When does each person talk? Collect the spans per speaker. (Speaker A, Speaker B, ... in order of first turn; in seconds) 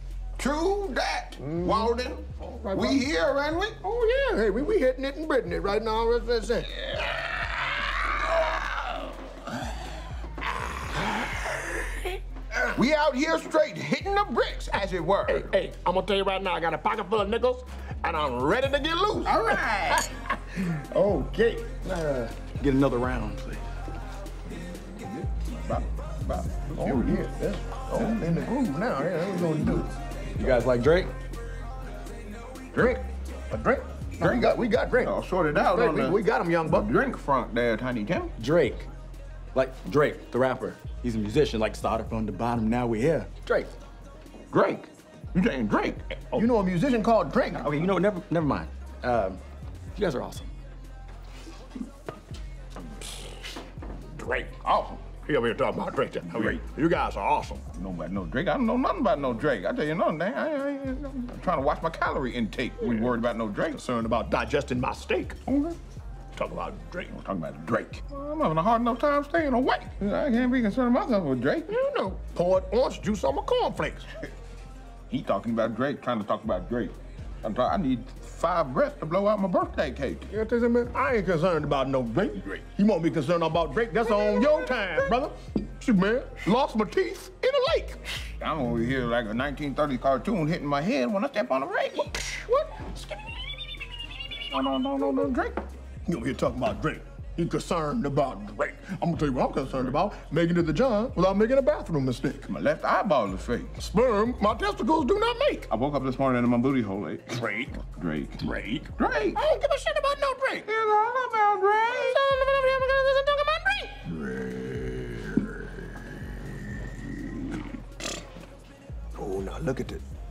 Speaker A: 0.4-3.8, 6.8-9.7, 12.7-15.5, 19.2-20.1, 25.0-27.2, 28.0-28.2, 34.2-38.3, 44.5-46.1, 54.6-55.0, 56.3-56.6, 57.7-63.8, 65.5-65.8, 67.1-71.7, 75.1-80.2, 84.0-85.1, 88.4-92.1, 94.4-95.6, 102.5-103.7, 105.7-109.4, 110.7-112.2, 114.3-114.8
Speaker B: 1.4-3.0, 3.8-6.9, 15.2-21.7, 26.7-29.9, 32.7-36.9, 46.3-47.8, 54.1-57.6, 62.8-63.1, 63.7-65.4, 66.3-67.1, 71.7-74.1, 80.3-88.0, 92.0-93.1, 96.0-102.5, 103.8-105.7, 107.3-107.8, 108.4-110.7, 111.9-114.7, 119.1-120.0
Speaker C: 21.8-23.6, 30.4-31.1, 38.4-38.9, 39.5-43.7, 47.5-49.4, 49.9-50.5